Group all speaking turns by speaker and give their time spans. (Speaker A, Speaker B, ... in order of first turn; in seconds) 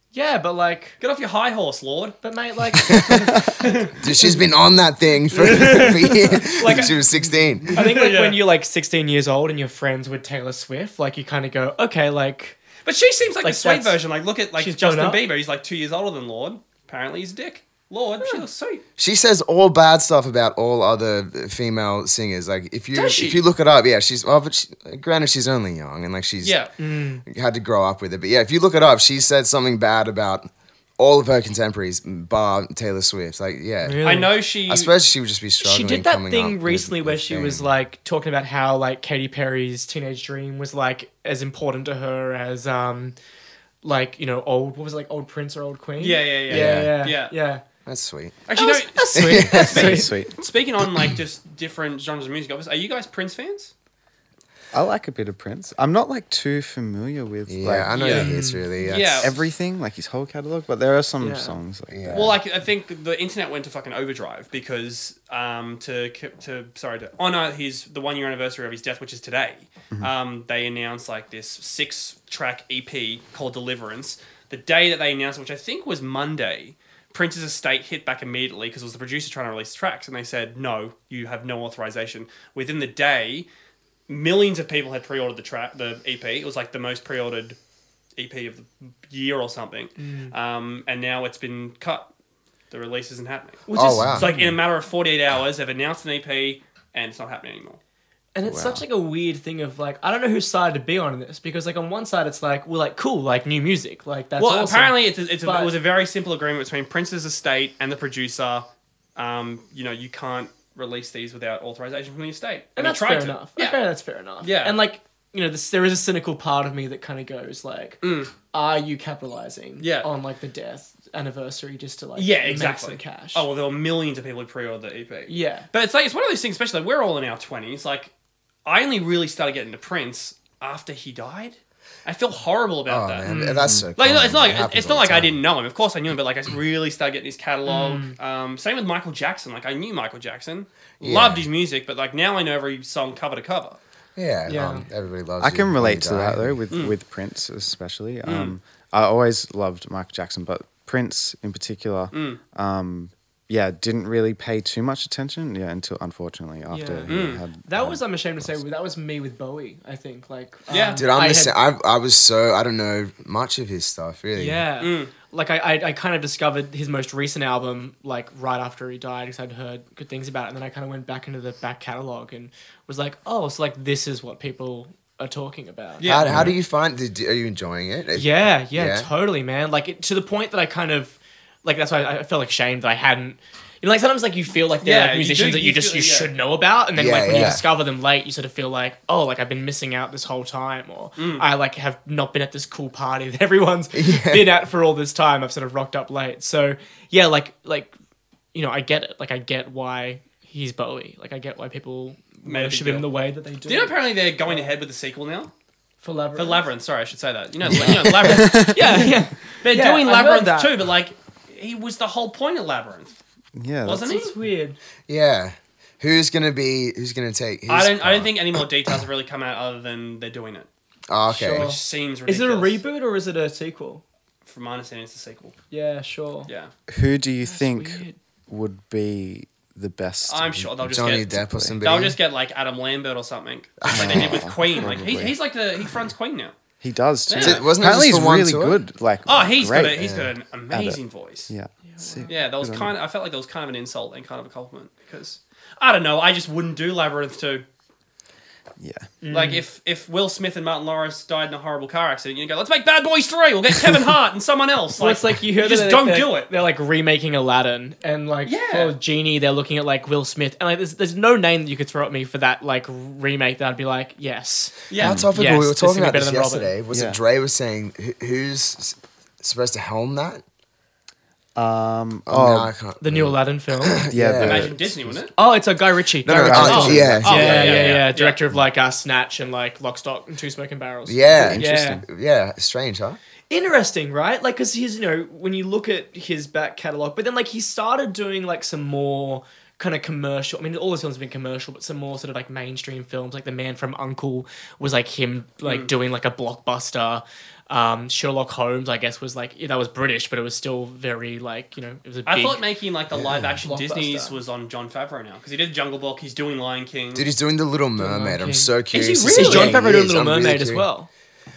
Speaker A: 0.1-1.0, 2.2-3.9, 5.5-5.8, 6.4-7.0, 7.7-12.6, 13.4-14.0, 14.6-15.2, 26.8-27.2, 33.8-34.4, 35.6-43.1, 43.8-47.6, 48.6-50.1, 58.1-58.7, 61.2-61.6, 90.0-90.3, 93.7-94.4, 98.3-105.7, 112.8-123.5, 125.3-125.7, 133.2-133.8, 137.7-138.1, 144.5-144.8, 156.7-161.5, 164.3-176.1, 178.1-197.9, 198.5-204.8, 206.0-206.7, 208.2-210.7, 214.0-214.8, 221.3-224.0, 225.7-226.5, 227.4-228.2, 241.8-242.5, 249.2-249.7, 255.0-266.7, 273.0-274.1, 275.4-282.0, 283.5-302.6, 303.6-304.4, 308.0-311.1
Speaker B: 1.0-2.1, 3.6-3.9, 5.3-6.2, 7.7-8.4, 12.8-18.8, 22.9-23.4, 26.4-26.7, 34.0-34.9, 46.0-47.3, 48.5-53.7, 57.9-59.4, 62.1-83.5, 84.1-87.6, 88.2-92.1, 92.7-97.8, 104.4-113.8, 114.4-114.8, 118.0-118.3, 119.8-120.1, 122.2-128.1, 128.6-133.3, 134.0-143.8, 148.2-148.5, 152.1-152.4, 157.1-157.4, 160.7-161.0, 164.8-165.1, 176.0-176.4, 184.8-186.3, 191.2-191.4, 202.4-203.1, 203.7-205.5, 206.3-213.1, 213.8-214.3, 217.7-220.7, 221.5-222.8, 224.4-225.6, 230.2-236.5, 237.3-237.7, 239.2-241.5, 242.3-247.6, 249.3-256.5, 258.4-258.9, 264.9-265.2, 274.4-275.3, 276.6-278.4, 295.6-295.9, 302.2-307.3, 309.2-309.8
Speaker C: 2.8-7.8, 19.0-26.6, 27.2-37.7, 46.5-47.0, 47.9-48.4, 49.1-50.0, 57.5-59.3, 61.9-62.4, 93.7-94.2, 132.8-135.4, 141.0-141.4, 144.2-146.6, 160.9-164.6, 176.0-179.1, 186.9-187.6, 193.9-194.5, 215.1-218.6, 221.1-221.8, 230.8-232.2, 233.8-234.4, 237.4-238.8, 240.0-240.3, 265.0-270.4, 272.3-275.1, 276.2-278.0, 281.1-283.2, 303.2-303.4, 307.1-310.9
Speaker D: 2.9-3.5, 49.7-50.3, 54.7-58.0, 59.2-62.3, 94.2-94.6, 98.4-98.8, 145.4-158.6, 176.3-176.5, 207.7-209.0, 213.5-214.1, 226.9-231.8, 233.9-235.4, 236.8-240.1, 240.7-242.9, 248.8-249.1, 265.0-265.3, 266.9-267.2, 271.6-272.7, 274.1-275.2, 276.3-277.4, 281.3-282.0